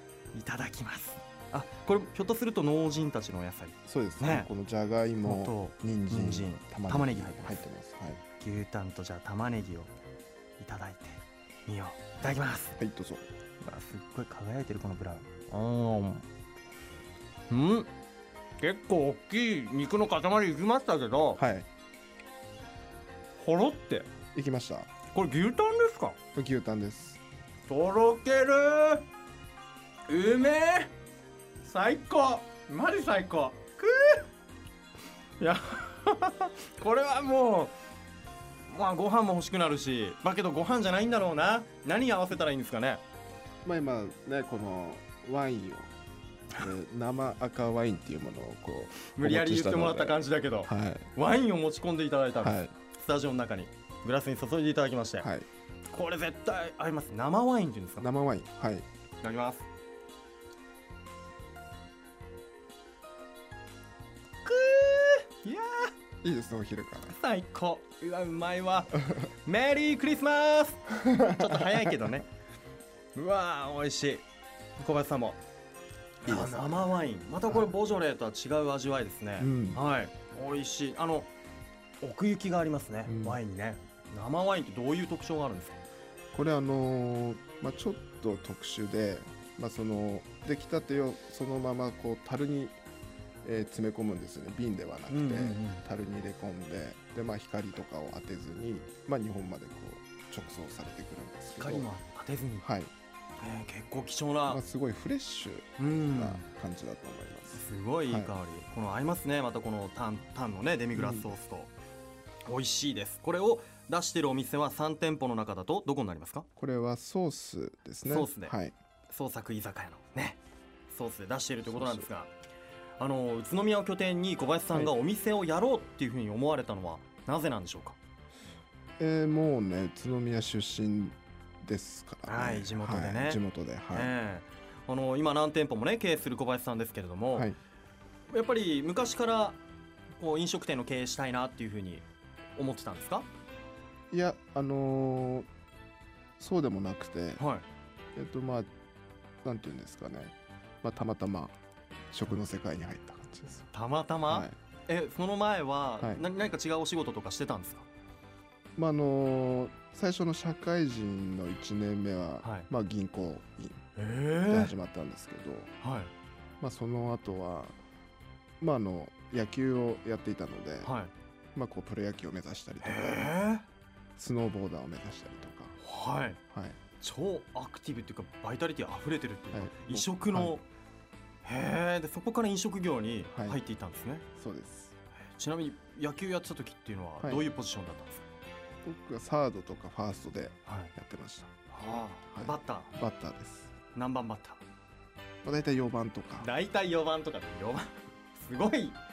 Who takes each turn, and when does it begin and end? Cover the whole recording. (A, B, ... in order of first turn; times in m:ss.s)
0:00.3-0:04.5 A
0:03.8-0:08.2 B
0:05.2-0:07.6 A
0:08.4-0:09.9 A
0:10.6-0:12.8 A
0:12.8-0:13.3 B
0:13.6-0:16.2 A
0:17.5-0:17.9 A
0:18.6-0:21.4 A
0:21.4-0:21.7 B
0:23.4-0:24.1 A
0:24.3-0:24.9 B
0:25.1-0:26.2 A
0:26.3-0:27.2 B
0:27.7-0:29.0 A
0:30.1-0:30.9 A
0:31.6-0:34.2 A
0:35.4-0:37.7 A
0:38.7-0:43.0 A
0:43.6-0:45.9 B
0:46.5-0:51.1 B
0:49.1-0:55.3 A
0:52.4-0:52.7 B
0:55.2-0:55.5 B
0:55.9-0:58.1 A
0:58.0-0:58.8 B
0:59.2-0:59.7 A
1:04.4-1:05.9 A
1:06.2-1:07.2 B
1:07.0-1:12.3 A
1:10.9-1:12.1 B
1:13.1-1:14.2 A
1:14.8-1:15.4 A
1:16.2-1:21.3 A
1:16.2-1:16.9 B
1:19.4-1:19.8 B
1:22.0-1:25.8 A
1:23.0-1:23.4 B
1:26.3-1:32.8 B
1:33.4-1:41.9 B
1:35.1-1:35.8 A
1:41.6-1:42.6 A
1:42.6-1:42.9 B
1:43.4-1:44.6 A
1:44.5-1:48.3 B
1:45.8-1:46.4 A
1:47.5-1:51.7 A
1:50.9-1:51.3 B
1:52.4-1:56.4 A
1:56.6-1:58.7 B
1:58.0-1:58.5 A
1:59.1-2:00.4 A
2:00.9-2:02.3 A
2:01.6-2:02.1 B
2:03.0-2:08.0 A
2:09.0-2:14.1 B
2:12.3-2:13.4 A
2:13.9-2:17.5 A
2:17.3-2:17.6 B
2:18.3-2:19.6 A
2:20.2-2:22.0 A
2:22.6-2:23.2 A
2:24.1-2:25.5 B
2:26.4-2:27.4 B
2:27.4-2:27.6 A
2:28.1-2:28.7 B
2:29.4-2:31.6 B
2:32.1-2:33.7 B
2:33.7-2:37.8 A
2:34.3-2:34.6 B
2:36.0-2:36.3 B
2:38.8-2:43.8 B
2:42.4-2:42.7 A
2:44.0-2:44.7 A
2:44.5-2:45.7 B
2:45.8-2:46.1 A
2:46.6-2:47.7 B
2:48.6-2:50.9 B
2:50.8-2:51.1 A
2:51.5-2:53.4 B
2:52.8-2:53.6 A
2:54.2-2:55.8 B
2:55.8-2:56.4 A
2:56.5-2:56.8 B
2:57.0-3:00.6 A
2:59.5-3:00.6 B
3:01.4-3:04.2 A
3:03.3-3:03.6 B
3:04.4-3:04.9 B
3:05.3-3:08.2 A
3:07.2-3:07.5 B
3:08.8-3:11.5 B
3:10.7-3:10.9 A
3:11.7-3:12.9 A
3:12.3-3:13.7 B
3:13.9-3:14.6 A
3:15.4-3:16.5 B
3:16.4-3:19.0 A